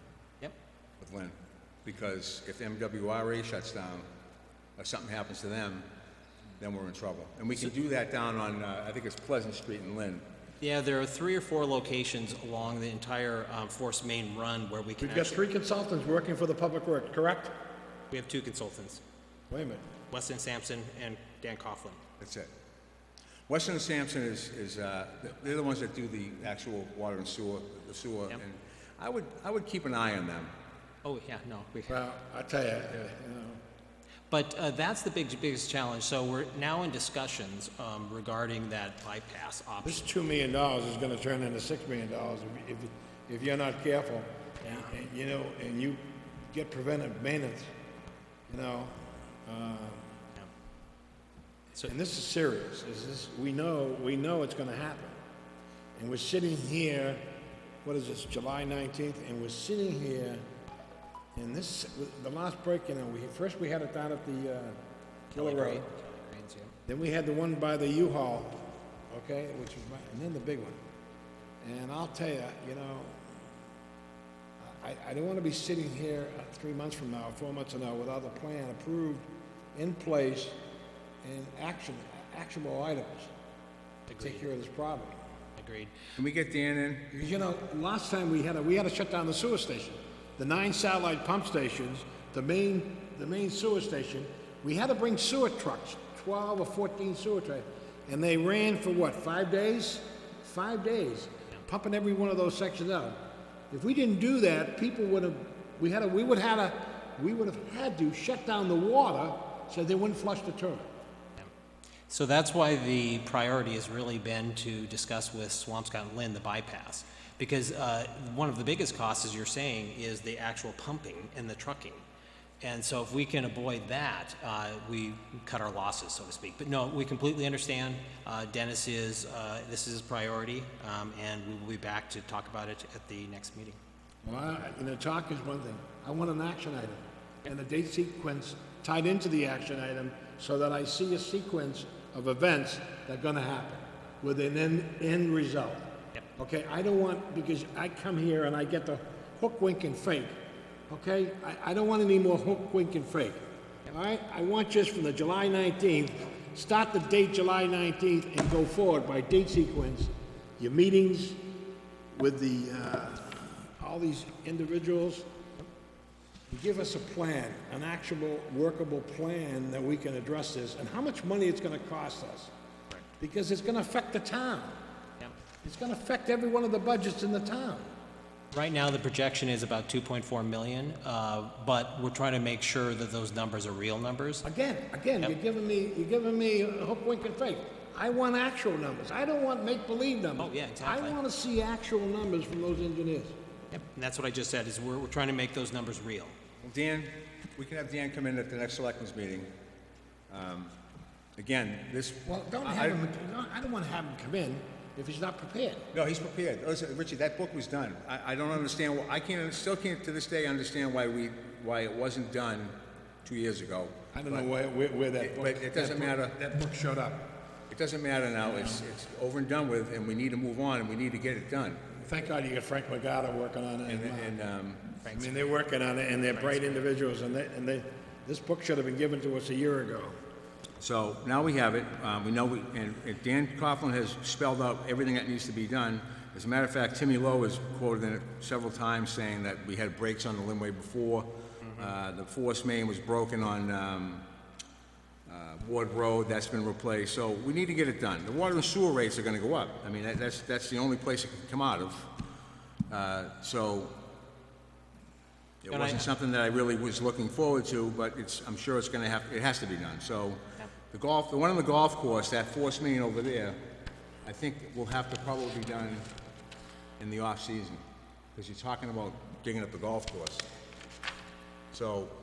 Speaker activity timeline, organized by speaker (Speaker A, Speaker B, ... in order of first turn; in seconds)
Speaker A: 1.0-4.1, 4.8-5.9, 6.6-10.2, 22.2-22.5, 23.5-30.5, 86.2-87.0, 196.6-199.5, 200.3-200.7, 201.4-203.0, 205.9-214.5, 215.2-216.4, 217.7-221.8, 223.9-224.9, 230.8-244.3, 245.3-252.1, 252.9-254.0, 255.6-260.4, 260.9-263.6, 264.2-266.1, 267.0-267.8, 268.3-270.4, 271.7-272.1
Speaker B: 10.6-15.4, 18.1-19.0, 20.1-22.0, 31.0-32.0, 34.3-40.0, 65.3-66.7, 84.1-84.4, 85.6-85.9, 112.1-122.0, 122.6-133.8, 178.5-184.4, 190.4-191.2, 193.7-196.3, 225.0-225.3, 226.4-226.7, 255.7-256.1
Speaker C: 15.0-17.5, 19.5-19.9, 31.9-33.6, 39.8-47.7, 48.5-50.0, 51.8-55.2, 56.0-57.2, 57.8-60.4, 61.3-64.8, 65.3-65.8, 66.9-70.8, 71.6-73.3, 74.6-80.5, 81.2-83.3, 84.2-85.2, 87.1-103.2, 103.7-110.9, 134.2-150.4, 150.9-161.4, 162.1-165.3, 166.5-172.5, 173.2-174.8, 175.6-177.9, 184.4-193.3, 202.2-205.9, 214.1-217.3, 218.5-218.8, 222.0-224.4, 225.1-230.1